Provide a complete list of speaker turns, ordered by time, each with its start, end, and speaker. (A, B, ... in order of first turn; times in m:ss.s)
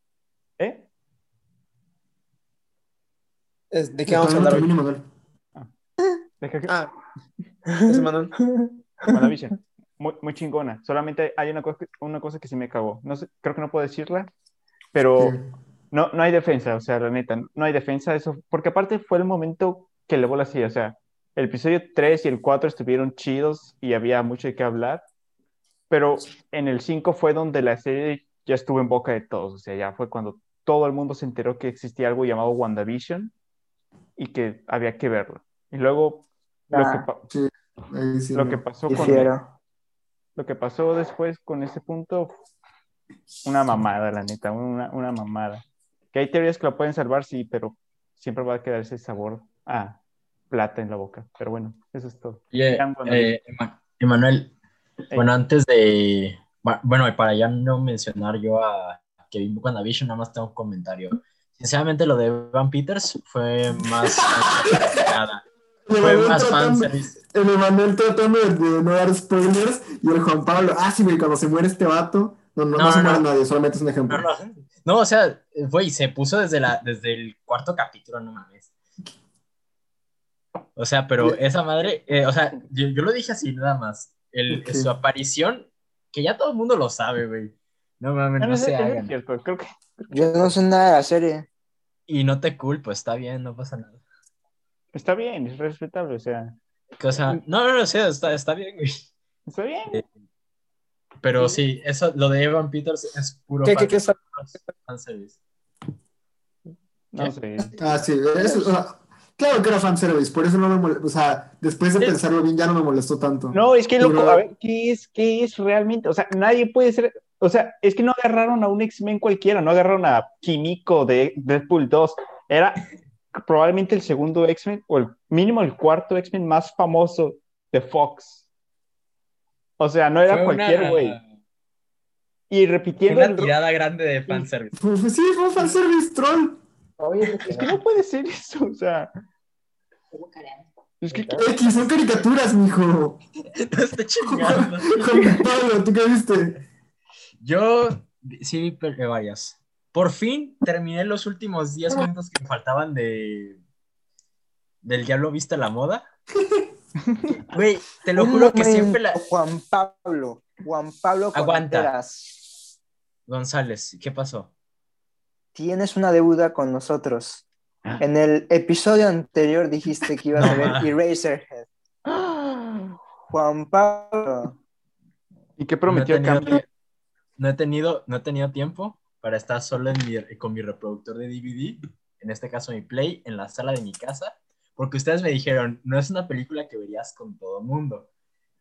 0:00.6-0:00.9 A
0:03.7-0:04.7 B
0:04.1-0:05.1 C
0:06.4-0:06.7 A
0:07.7-0:09.2 D
0:07.9-0:08.3 B
0:09.1-0:14.3 A
0:14.9-0:15.4 A
0:15.2-0:15.5 C
0:15.9-0:25.0 A
0:25.9-0:33.3 A
0:34.2-0:37.2 A
0:36.7-0:37.1 D
0:37.3-0:38.6 C
0:38.3-0:39.3 A
0:38.9-0:39.5 D
0:40.4-0:42.3 A
0:43.4-0:50.0 A
0:50.5-0:53.3 A
0:52.5-0:54.5 E
0:55.1-1:05.4 E
1:04.7-1:05.0 C
1:05.9-1:14.3 C
1:06.0-1:07.2 E
1:12.8-1:13.2 E
1:14.1-1:18.7 E
1:20.8-1:29.1 E
1:24.5-1:24.9 C
1:28.4-1:29.7 A
1:30.1-1:31.5 D
1:32.1-1:34.0 E
1:34.9-1:36.6 A
1:37.0-1:39.1 E
1:39.5-1:40.0 A
1:41.2-1:45.4 E
1:43.6-1:44.2 B
1:47.1-1:47.7 A
1:47.8-1:54.4 C
1:53.5-2:08.4 A
2:09.8-2:11.2 A
2:10.3-2:11.2 E
2:12.5-2:13.5 A
2:13.1-2:14.8 E
2:14.8-2:16.6 C
2:17.0-2:17.7 B
2:17.5-2:19.1 A
2:21.0-2:21.4 A
2:21.4-2:23.2 C
2:23.6-2:24.9 E
2:24.3-2:26.6 C
2:25.0-2:25.4 A
2:27.4-2:33.6 E
2:34.8-2:36.1 E
2:37.5-2:39.2 E
2:38.1-2:42.4 D
2:41.3-2:41.9 E
2:43.3-2:44.5 E
2:45.6-2:47.4 D
2:48.0-2:51.7 D
2:50.4-2:50.9 E
2:52.1-2:52.9 A
2:53.3-2:54.6 D
2:55.6-2:56.6 A
2:55.9-2:56.6 E
2:57.4-3:08.1 E